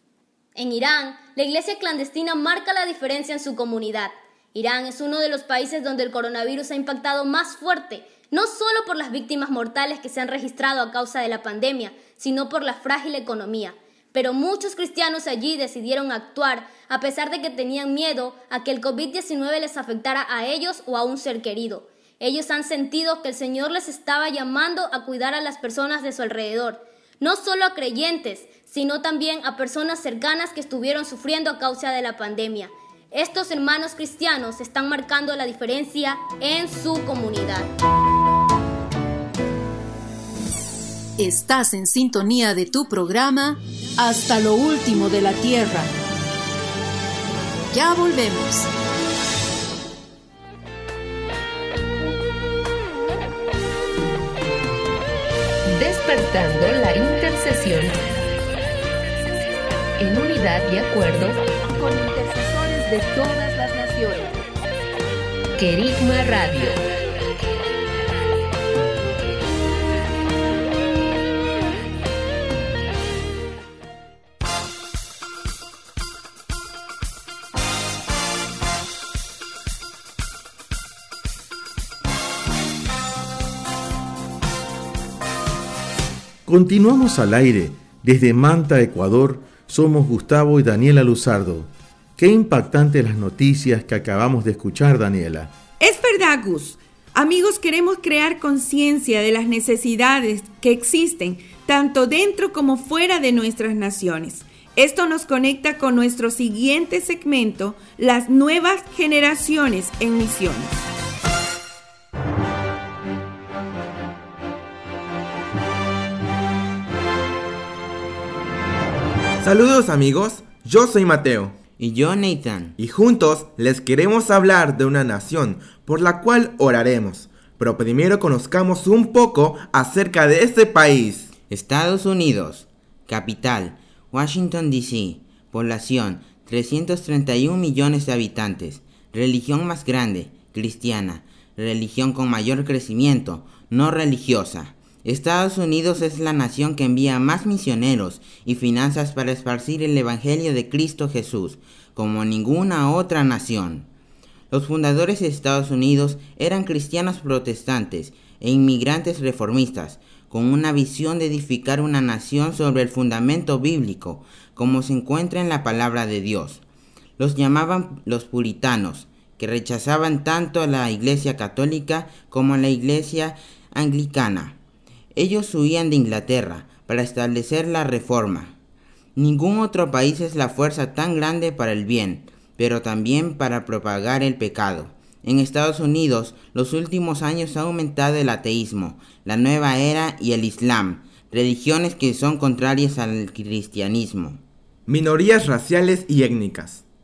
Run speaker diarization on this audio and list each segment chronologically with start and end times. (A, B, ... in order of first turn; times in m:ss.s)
0:00.6-0:37.7 A
0:41.2-0:45.9 B
0:47.7-0:48.7 B
0:55.7-0:58.0 C
1:00.0-1:01.4 C
1:01.8-1:04.4 D
1:05.6-1:06.8 C
1:26.5-1:35.5 E
1:35.8-1:50.9 D
1:59.4-2:01.6 F
2:01.8-2:02.8 G
2:02.8-2:11.3 F
2:11.5-2:33.9 G
2:34.5-2:46.6 G
2:47.2-2:54.6 G
2:55.1-2:58.5 G
2:59.2-3:14.4 G
3:14.9-3:16.8 F